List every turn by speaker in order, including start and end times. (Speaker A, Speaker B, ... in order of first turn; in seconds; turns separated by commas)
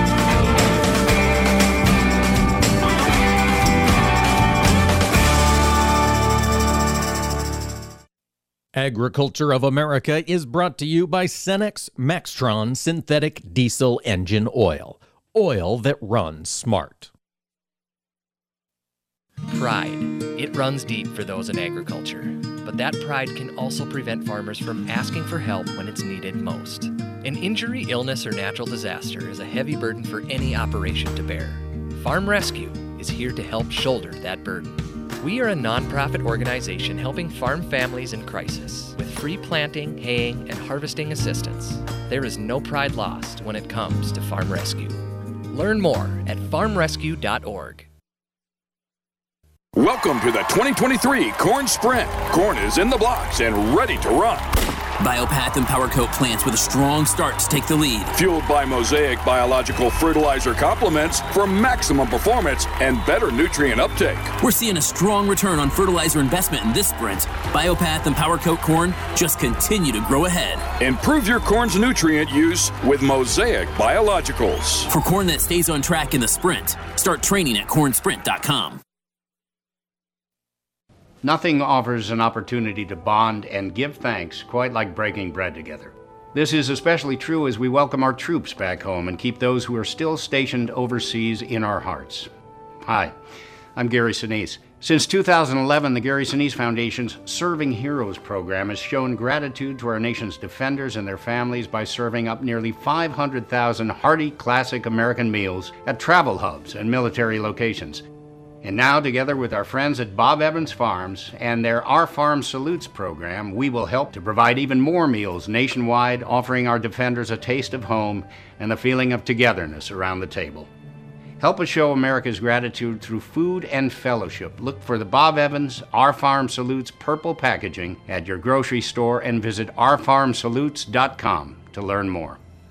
Speaker A: 8.8-17.1, Speaker B: 19.5-47.9, Speaker C: 49.8-54.5, Speaker D: 55.0-58.1, Speaker C: 58.1-64.3, Speaker D: 64.4-70.7, Speaker C: 70.8-74.9, Speaker D: 74.9-78.8, Speaker E: 81.2-92.3, Speaker E: 92.8-93.2, Speaker E: 93.8-108.0, Speaker E: 108.6-120.7, Speaker E: 121.4-132.4